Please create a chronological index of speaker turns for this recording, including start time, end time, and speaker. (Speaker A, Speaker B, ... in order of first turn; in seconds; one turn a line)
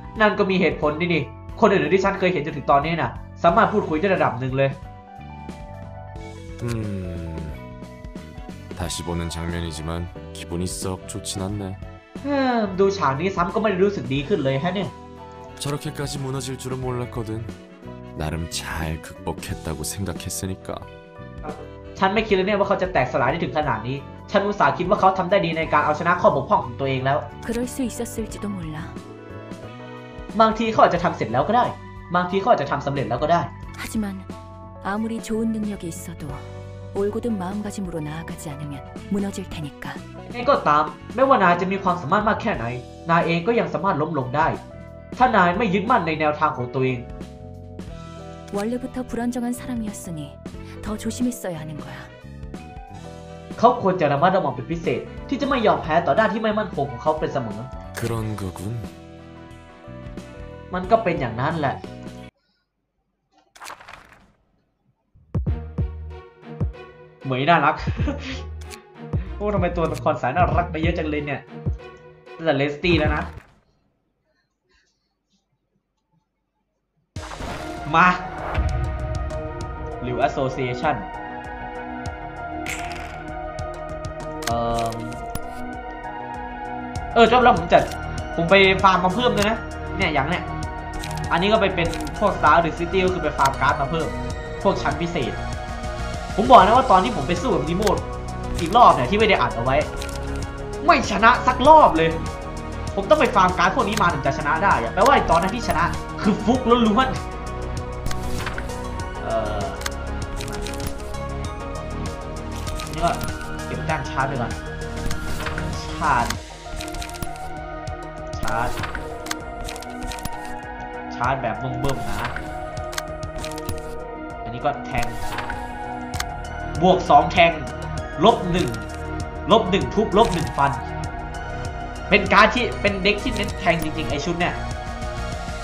Speaker A: 0.2-4.8
Speaker B: 6.6-7.6
Speaker B: 8.8-11.8
Speaker A: 12.2-14.9
Speaker B: 15.6-17.5
Speaker B: 18.2-20.9
Speaker A: 22.0-27.3
Speaker C: 27.4-29.0
Speaker A: 30.3-33.5
Speaker C: 33.8-34.3
Speaker C: 34.8-40.0
Speaker A: 40.3-44.6
Speaker A: 45.2-47.1
Speaker C: 48.5-52.1
Speaker A: 53.6-57.7
Speaker B: 58.0-58.9
Speaker A: 60.7-61.8
Speaker A: 67.2-68.4
Speaker A: 69.4-71.4
Speaker A: 72.4-73.3
Speaker A: 77.9-78.3
Speaker A: 80.0-81.1
Speaker A: 84.5-85.2
Speaker A: 87.1-90.5
Speaker A: 91.3-95.4
Speaker A: 96.4-99.9
Speaker A: 100.8-102.2
Speaker A: 102.9-107.2
Speaker A: 109.2-109.8
Speaker A: 110.4-110.7
Speaker A: 112.9-114.6
Speaker A: 115.7-116.4
Speaker A: 118.3-118.8
Speaker A: 121.1-122.3
Speaker A: 124.5-125.2
Speaker A: 126.8-128.9
Speaker A: 129.5-130.8
Speaker A: 132.1-134.6